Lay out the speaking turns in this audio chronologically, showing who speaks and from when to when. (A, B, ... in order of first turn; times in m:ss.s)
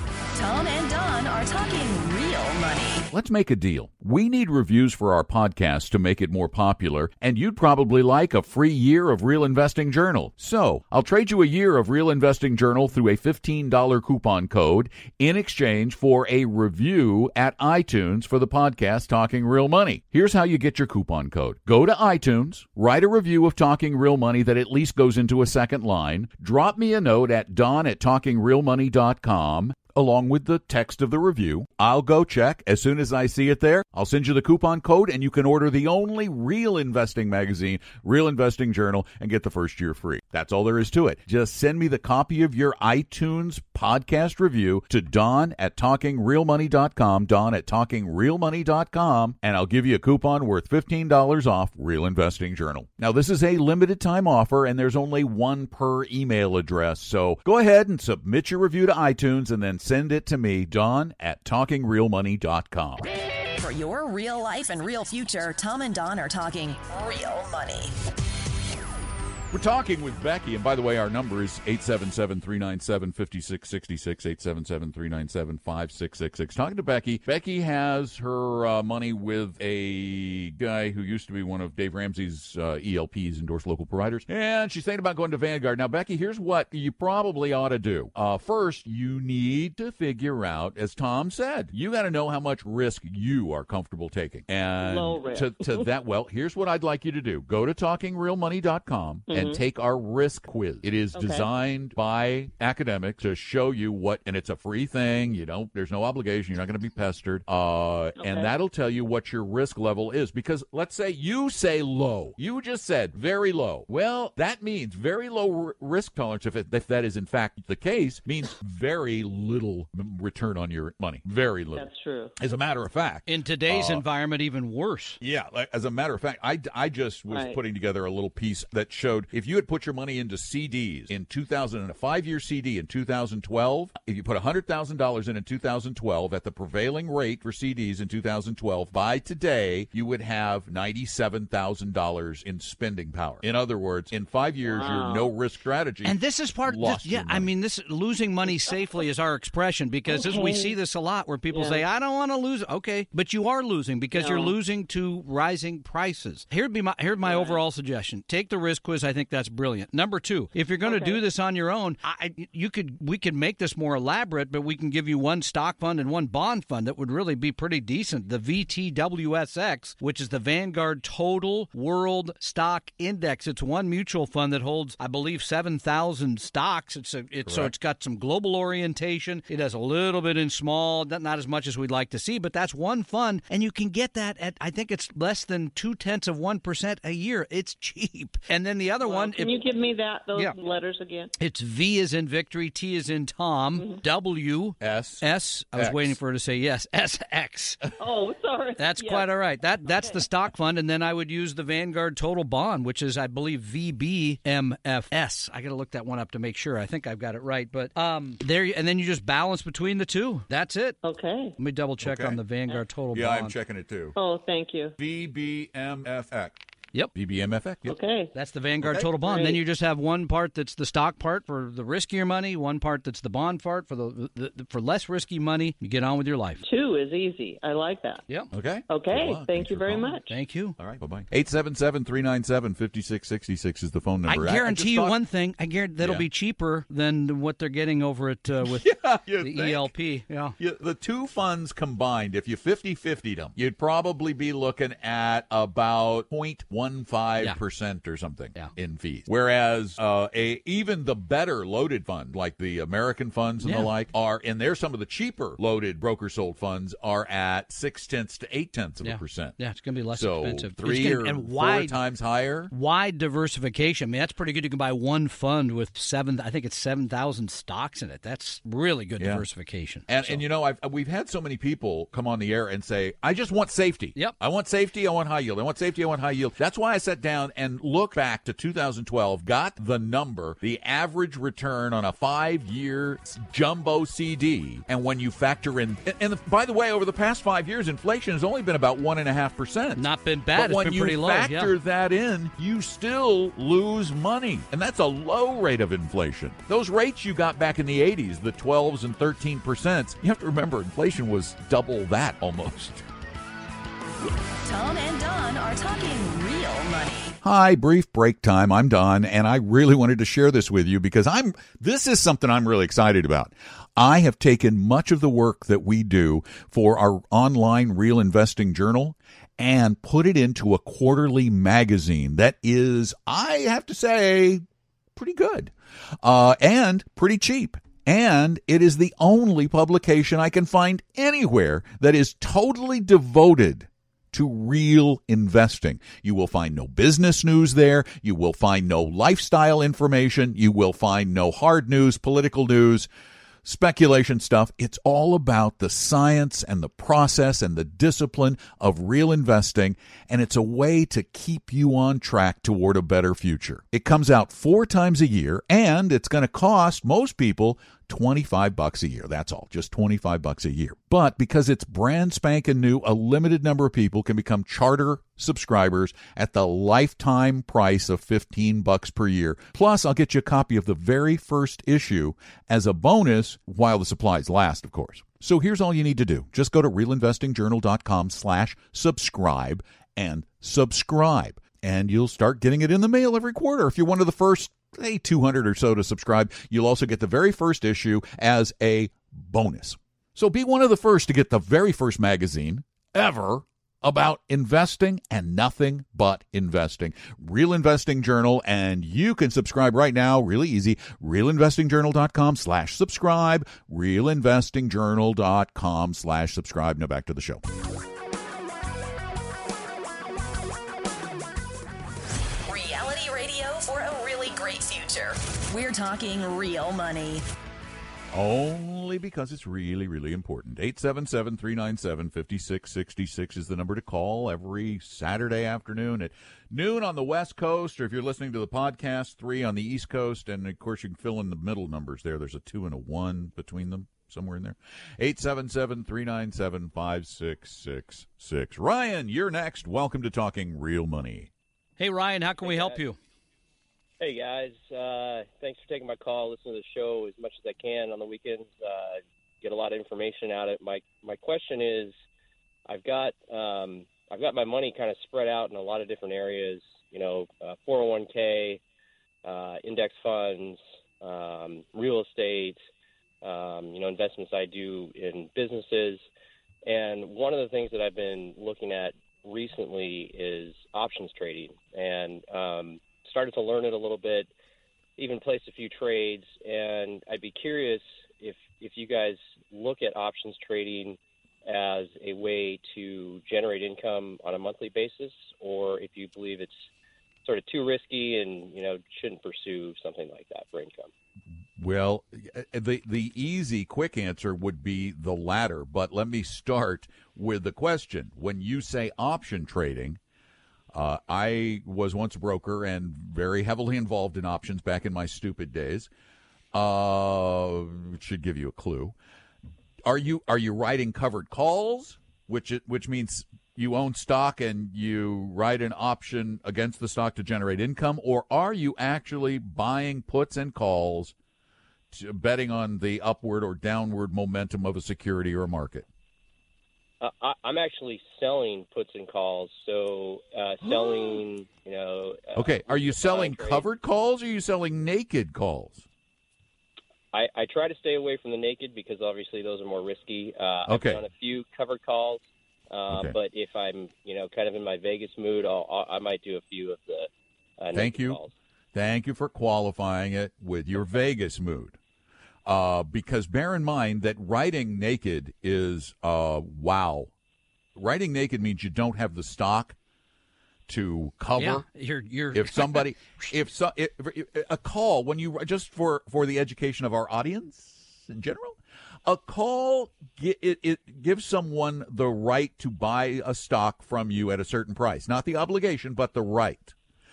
0:00.3-0:03.1 A
0:03.1-1:03.1 B
1:03.6-1:07.9 A
1:09.5-2:01.9 B
1:34.8-1:35.9 C
1:39.3-1:39.6 C
1:41.2-1:41.4 C
1:48.2-1:48.5 C
2:01.7-2:02.3 C
2:02.4-2:04.0 B
2:03.3-2:05.2 D
2:05.2-2:27.5 B
2:07.3-2:07.6 C
2:24.7-2:25.3 C
2:26.0-3:09.6 D
2:28.5-2:28.9 C
2:30.1-2:30.8 C
2:31.5-2:31.8 C
2:34.1-2:34.5 C
2:37.2-2:37.6 C
2:40.8-2:41.2 C
2:57.5-2:57.7 B
3:09.0-3:11.3 C
3:11.4-3:17.8 D
3:14.8-3:16.2 B
3:18.0-3:19.3 C
3:18.8-3:31.0 D
3:19.8-3:20.2 C
3:31.0-3:31.6 C
3:31.6-3:33.5 D
3:32.0-3:32.4 B
3:33.1-3:34.2 B
3:34.2-3:34.9 C
3:35.0-3:36.6 B
3:37.1-3:38.0 B
3:37.9-3:38.3 C
3:38.3-3:46.6 D
3:38.8-3:39.6 B
3:46.6-3:48.2 C
3:48.5-3:50.2 B
3:48.9-3:50.3 C
3:50.3-3:50.8 D
3:50.8-3:55.2 B
3:54.3-4:00.5 D
3:56.0-3:56.3 B
3:58.6-3:59.9 B
4:00.6-4:19.6 B
4:13.6-4:13.9 D
4:19.0-4:22.0 D
4:20.1-4:22.7 B
4:22.7-4:30.4 D
4:29.2-4:29.5 B
4:30.1-5:03.0 B
4:50.0-4:51.7 D
5:04.6-5:07.4 A
5:07.4-5:24.6 B
5:25.2-5:43.1 B
5:43.6-6:47.6 B
6:52.7-6:57.4 A
6:58.3-7:21.5 B
7:22.0-7:23.2 D
7:22.6-7:23.0 E
7:24.2-7:32.1 E
7:32.9-7:38.8 E
7:39.4-7:42.8 E
7:43.4-7:46.2 E
7:46.8-7:54.5 E
7:55.2-8:06.7 E
8:07.4-8:11.1 E
8:11.8-8:20.2 B
8:20.9-8:26.1 B
8:26.7-8:29.2 B
8:30.1-8:41.3 B
8:42.1-8:46.1 B
8:47.2-8:53.9 E
8:50.8-8:51.4 B
8:52.6-8:56.0 B
8:57.3-9:08.5 E
9:00.9-9:01.2 B
9:03.1-9:03.4 B
9:07.9-9:08.4 B
9:08.9-9:12.0 B
9:12.7-9:17.3 B
9:18.0-9:20.0 B
9:20.9-9:21.8 B
9:21.6-9:23.3 D
9:22.5-9:36.9 B